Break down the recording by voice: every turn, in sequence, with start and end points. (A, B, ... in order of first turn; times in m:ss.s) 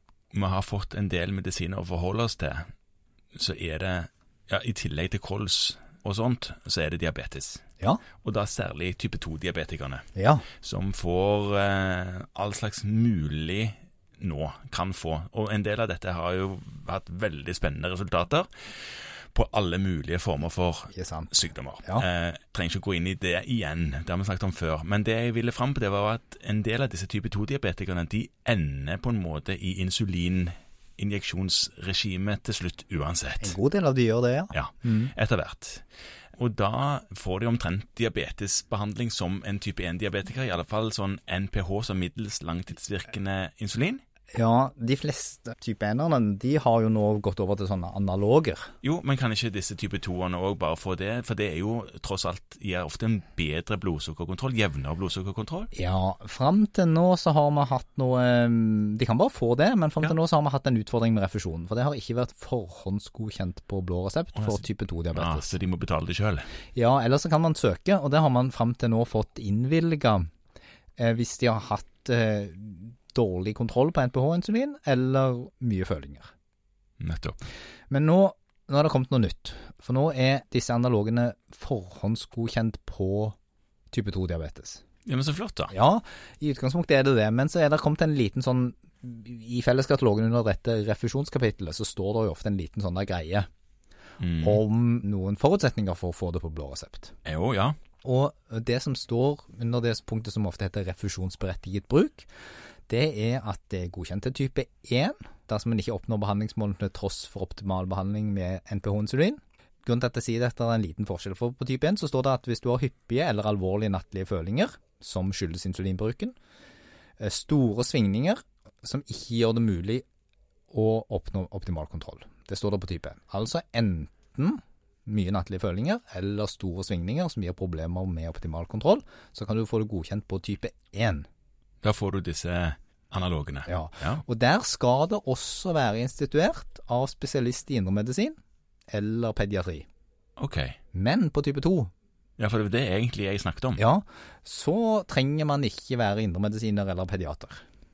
0:00.3-0:02.7 A
0:03.4-0:07.6 A
0:08.2-0:10.0 A
0:10.2-0:10.5 B
0:10.6-0:33.6 A
0:20.9-0:21.3 B
0:33.4-0:35.1 B
0:34.5-0:35.8 A
0:36.4-0:44.0 A
0:44.3-0:48.7 B
0:48.8-0:55.7 A
0:55.7-1:05.5 B
1:04.4-1:04.6 A
1:05.1-1:06.5 A
1:06.8-1:10.3 B
1:11.0-1:16.3 B
1:17.0-1:17.4 A
1:17.9-1:23.4 B
1:23.9-1:24.8 B
1:25.1-1:25.7 A
1:25.7-1:33.5 B
1:34.2-1:34.6 A
1:34.4-1:37.1 B
1:37.2-1:37.8 A
1:38.0-1:42.3 B
1:42.9-1:56.4 B
1:57.2-2:00.0 B
2:00.7-2:11.3 B
2:11.8-2:14.2 A
2:13.7-2:18.4 B
2:18.9-2:19.9 B
2:20.4-2:20.8 A
2:20.9-2:21.9 B
2:22.4-2:23.8 A
2:23.8-2:27.6 B